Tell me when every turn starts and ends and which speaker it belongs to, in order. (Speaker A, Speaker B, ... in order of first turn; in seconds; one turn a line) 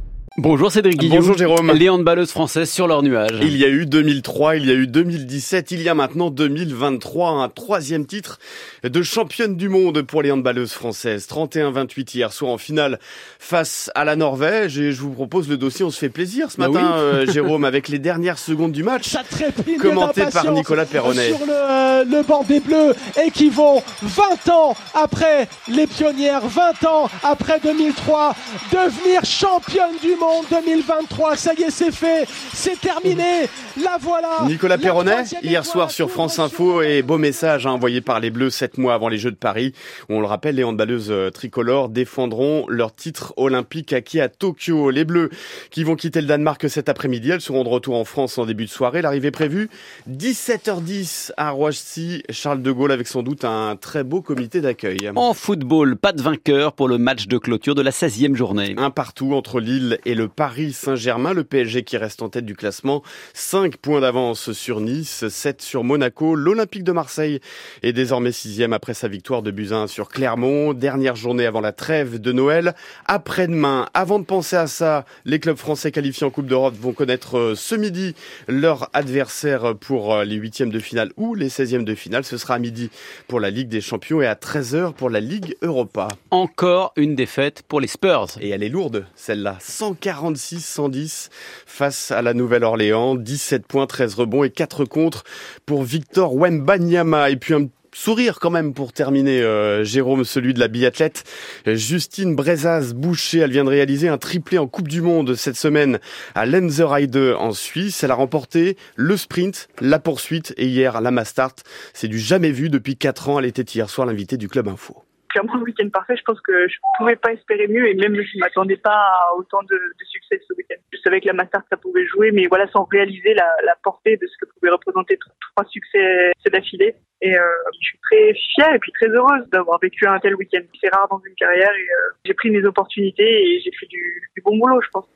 Speaker A: 0.4-3.5
Speaker B: 1.0-1.8
Speaker B: 3.4-19.2
Speaker A: 16.6-17.4
Speaker C: 19.0-37.9
Speaker B: 19.8-21.4
Speaker B: 34.4-55.2
Speaker A: 55.1-58.8
Speaker B: 58.8-86.2
Speaker A: 86.3-88.4
Speaker B: 88.4-115.0
Speaker D: 115.3-135.1